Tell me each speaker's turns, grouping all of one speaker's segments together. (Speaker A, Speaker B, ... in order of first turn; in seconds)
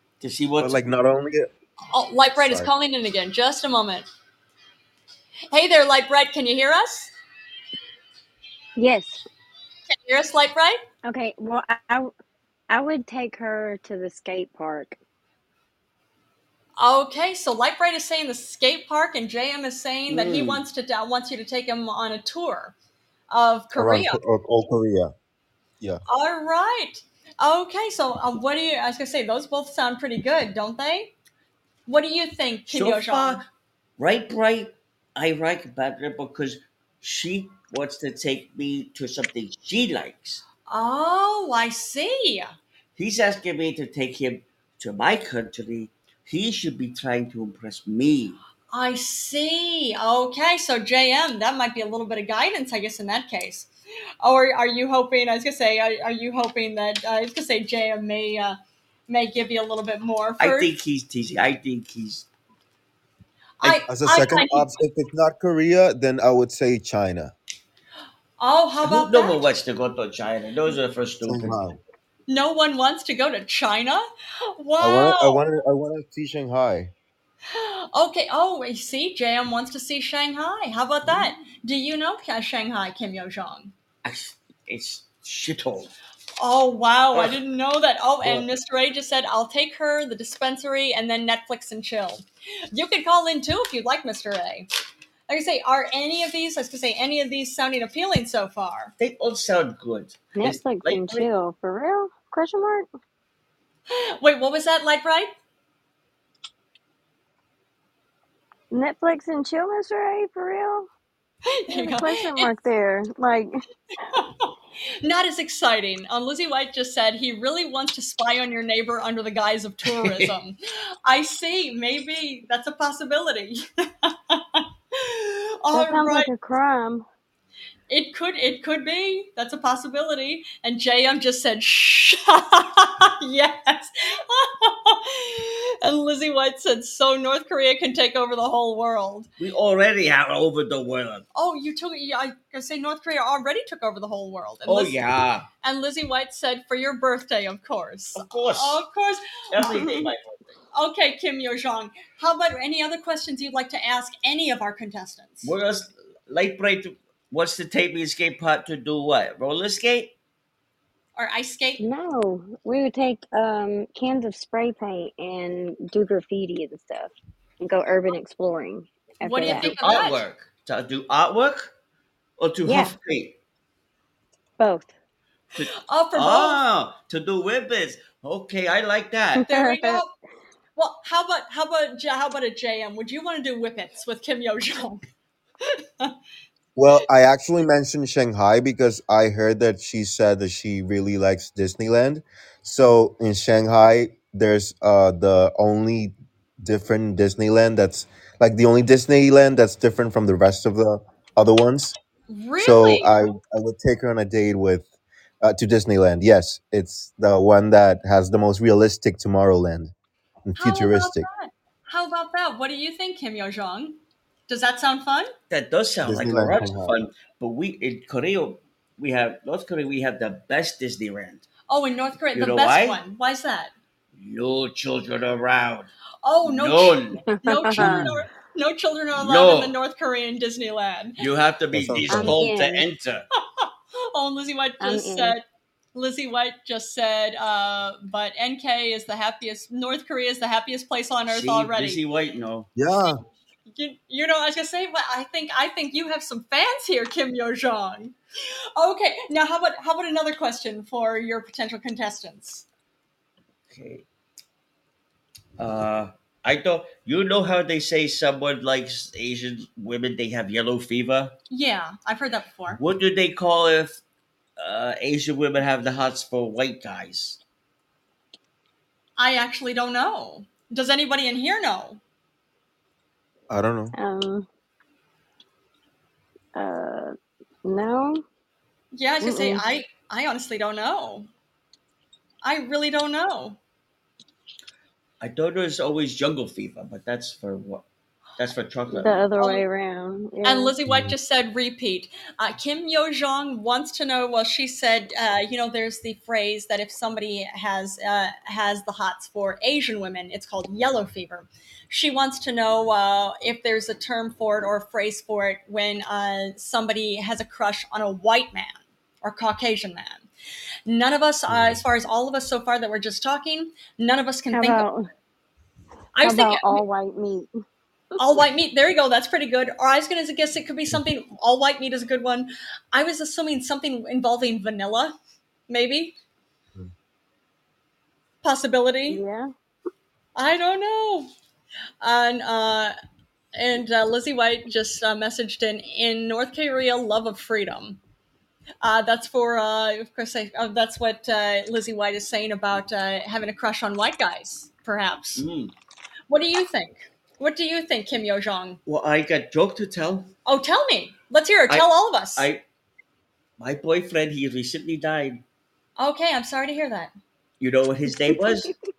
Speaker A: 0.2-0.9, 20.1-20.6, 32.7-33.5, 34.0-40.4, 43.0-48.4, 60.4-62.3, 68.8-71.6, 84.0-85.9, 99.0-101.3, 119.8-120.3, 139.4-141.2, 144.7-145.5, 148.1-148.8, 149.5-150.5, 155.4-160.1, 169.4-171.7, 172.4-173.4, 175.6-179.4, 215.5-221.4, 222.3-223.0, 224.2-225.9, 226.4-227.2, 229.2-229.7, 231.2-233.3, 241.3-242.7, 253.7-254.1, 255.6-261.4, 262.8-264.0, 264.6-267.4, 285.2-287.9, 288.4-289.2, 345.4-345.7, 348.9-350.3, 351.7-352.6, 353.6-355.4, 357.6-358.7
Speaker B: 0.6-1.5, 2.4-2.7, 23.8-25.1, 63.6-67.3, 71.2-71.8, 74.8-76.9, 186.7-201.9, 202.6-204.9, 205.4-209.9, 210.4-211.3, 216.1-216.9, 231.7-232.4, 242.8-243.2, 273.5-273.9, 290.9-291.1, 311.5-311.8
Speaker C: 1.9-4.1, 5.5-7.1, 9.9-10.8, 16.8-22.7, 23.3-24.2, 26.1-31.1, 31.9-33.4, 40.7-42.5, 48.7-53.7, 54.2-60.7, 63.6-64.7, 68.4-69.4, 72.3-75.4, 77.5-83.7, 86.4-94.7, 95.3-98.9, 103.9-105.3, 111.5-112.5, 114.1-126.3, 127.9-139.3, 141.3-145.0, 145.6-149.3, 150.7-155.5, 161.2-161.8, 169.2-170.2, 175.8-176.6, 179.5-180.1, 180.8-185.0, 185.6-186.1, 202.3-203.1, 210.6-215.3, 221.7-223.7, 226.2-231.2, 233.4-235.4, 235.9-242.0, 243.7-248.2, 248.8-252.6, 261.5-262.8, 269.2-272.0, 278.9-281.3, 282.4-283.6, 289.4-289.6, 290.4-310.3, 310.9-314.9, 316.2-316.9, 318.2-325.2, 325.7-326.1, 328.4-329.2, 330.4-331.3, 332.0-332.9, 333.6-338.0, 338.8-345.4, 346.3-348.8, 350.4-352.5, 356.0-357.1
Speaker D: 8.8-9.2, 11.0-12.1, 12.7-15.0, 100.4-102.9, 108.7-110.9, 111.7-113.5, 125.7-127.0, 149.6-150.1, 161.8-169.7, 172.6-172.9, 174.6-174.9, 179.4-180.0, 227.3-228.1, 232.1-232.9, 234.8-235.4, 273.9-274.4, 276.6-277.1, 277.7-278.2, 279.2-279.6, 288.9-290.8, 314.5-315.1, 316.2-317.5, 329.1-329.5, 358.3-358.7